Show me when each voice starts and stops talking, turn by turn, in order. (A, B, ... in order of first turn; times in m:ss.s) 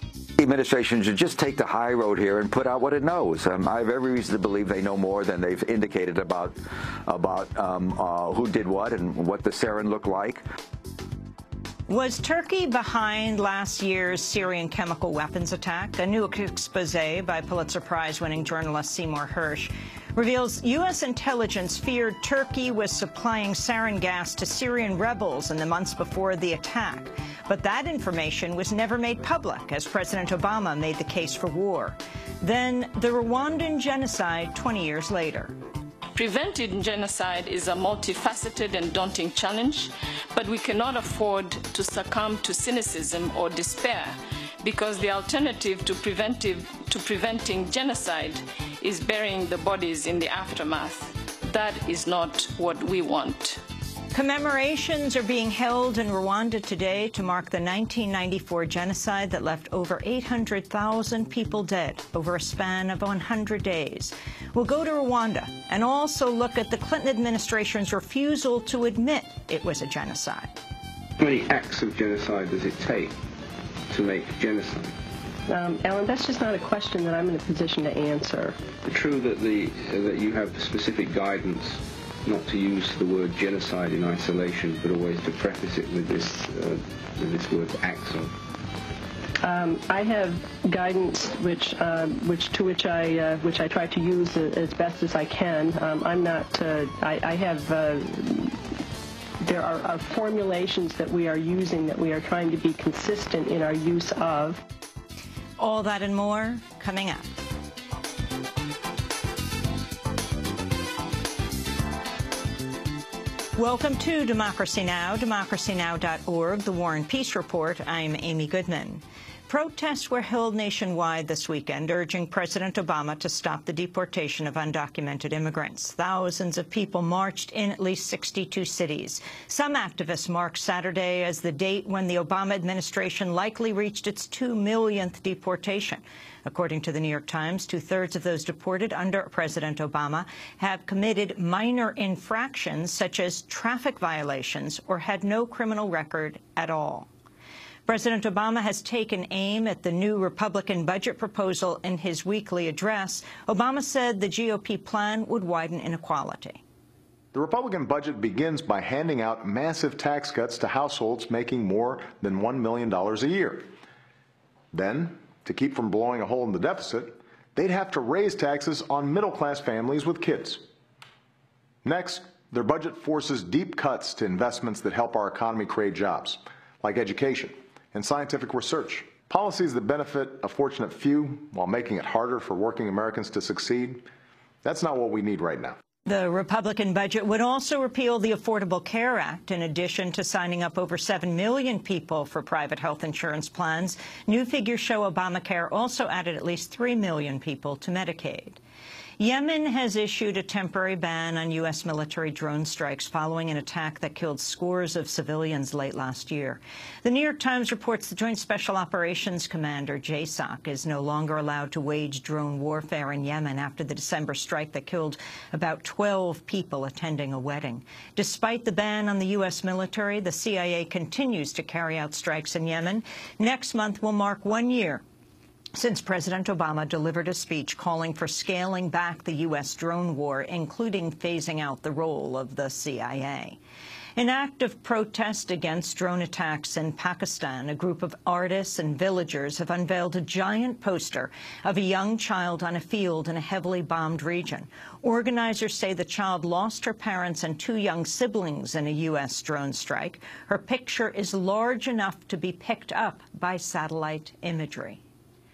0:00.4-0:10.4 A
0:11.9-0:35.5 B
0:36.2-0:53.6 C
0:54.1-1:10.5 B
1:11.2-1:13.1 D
1:13.9-1:14.9 D
1:15.5-1:18.6 E
1:18.8-1:28.3 D
1:29.4-1:38.6 E
1:39.4-1:44.6 E
1:45.6-1:47.3 B
1:53.6-2:27.1 B
2:27.9-2:36.6 B
2:37.3-2:43.7 F
2:44.7-2:50.6 F
2:51.8-3:04.0 F
3:04.6-3:05.8 F
3:06.1-3:18.6 B
3:19.2-3:45.0 B
3:45.8-3:53.6 B
3:54.2-4:15.0 B